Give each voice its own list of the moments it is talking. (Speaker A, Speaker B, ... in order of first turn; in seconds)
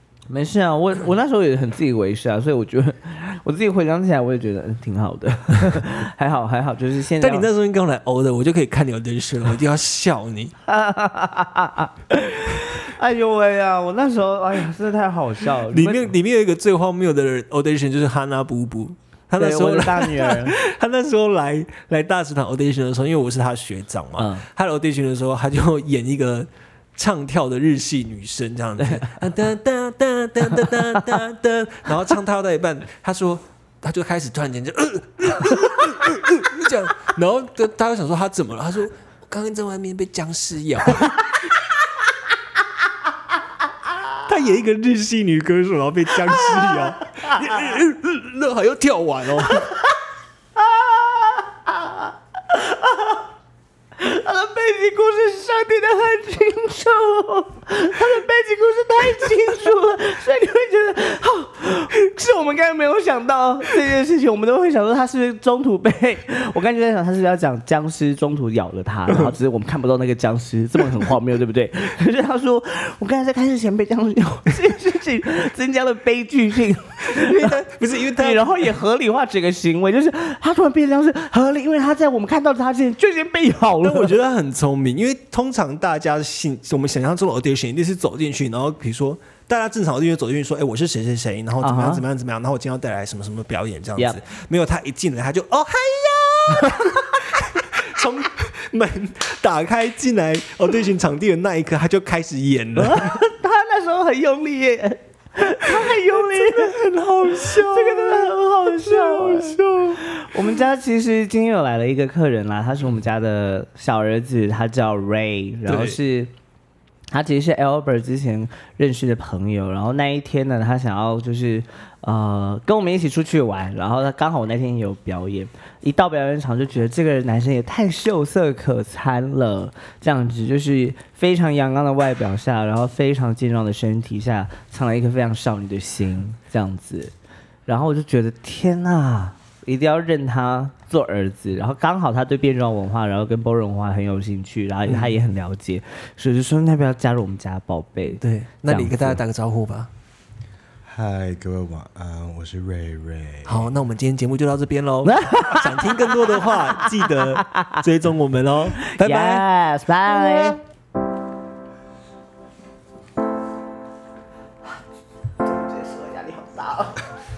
Speaker A: 0.3-7.5, 10.7-16.1, 19.4-20.6, 24.2-24.4, 28.8-29.1, 50.6-53.2, 54.0-84.2, 91.6-92.0, 102.8-116.3, 117.1-137.1, 137.7-149.2, 155.0-157.8, 158.8-160.6, 165.4-167.0
Speaker B: 7.2-10.5, 15.7-41.4, 44.2-49.7, 77.1-78.7, 83.8-103.2, 105.6-110.5, 115.7-116.0, 148.2-149.9, 153.4-159.5
Speaker C: 150.8-153.7